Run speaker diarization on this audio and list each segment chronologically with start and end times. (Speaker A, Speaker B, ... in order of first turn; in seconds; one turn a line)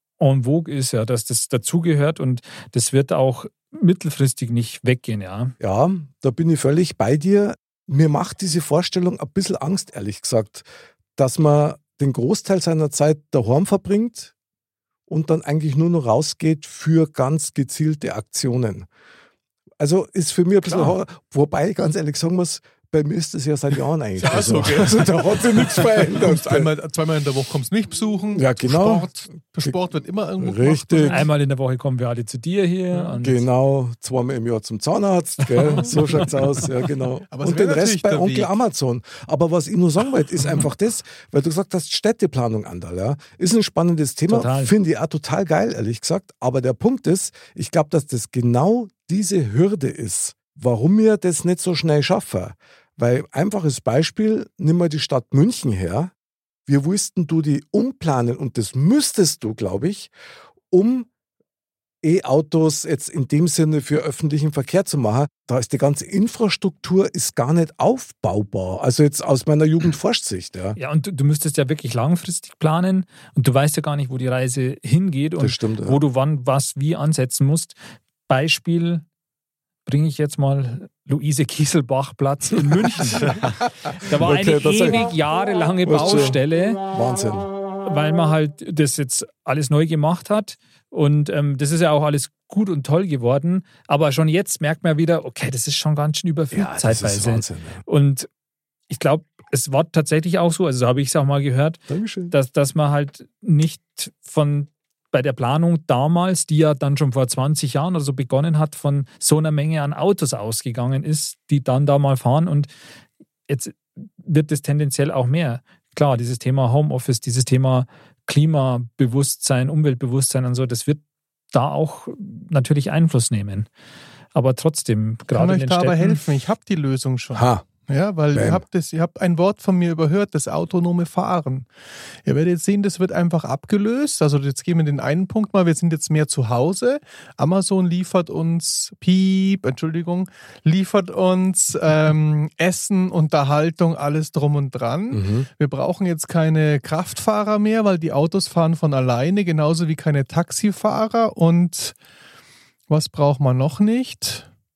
Speaker A: 0.2-5.5
Speaker B: 5.6-10.7
Speaker B: 11.2-14.3
Speaker B: 15.1-18.9
Speaker B: 19.8-26.7
Speaker C: 20.7-20.9
Speaker C: 24.1-31.3
Speaker B: 28.3-29.1
Speaker B: 30.4-31.2
Speaker A: 31.1-33.5
Speaker B: 33.2-56.1
Speaker A: 35.6-36.2
Speaker C: 37.3-38.5
Speaker A: 44.3-44.7
Speaker B: 56.7-60.1
Speaker B: 60.7-61.1
Speaker B: 62.0-70.8
Speaker A: 70.8-77.8
Speaker B: 75.4-76.0
Speaker A: 78.3-79.0
Speaker A: 79.8-83.4
Speaker B: 83.0-83.3
Speaker A: 84.0-86.8
Speaker B: 84.1-85.0
Speaker B: 85.8-87.5
Speaker A: 87.8-98.3
Speaker B: 96.5-97.8
Speaker A: 98.9-112.7
Speaker B: 101.9-102.3
Speaker A: 113.5-121.0
Speaker A: 121.5-123.7
Speaker A: 124.3-126.2
Speaker C: 125.3-131.7
Speaker B: 127.3-127.6
Speaker B: 128.3-128.6
Speaker C: 132.2-151.9
Speaker B: 145.1-145.5
Speaker C: 152.9-154.5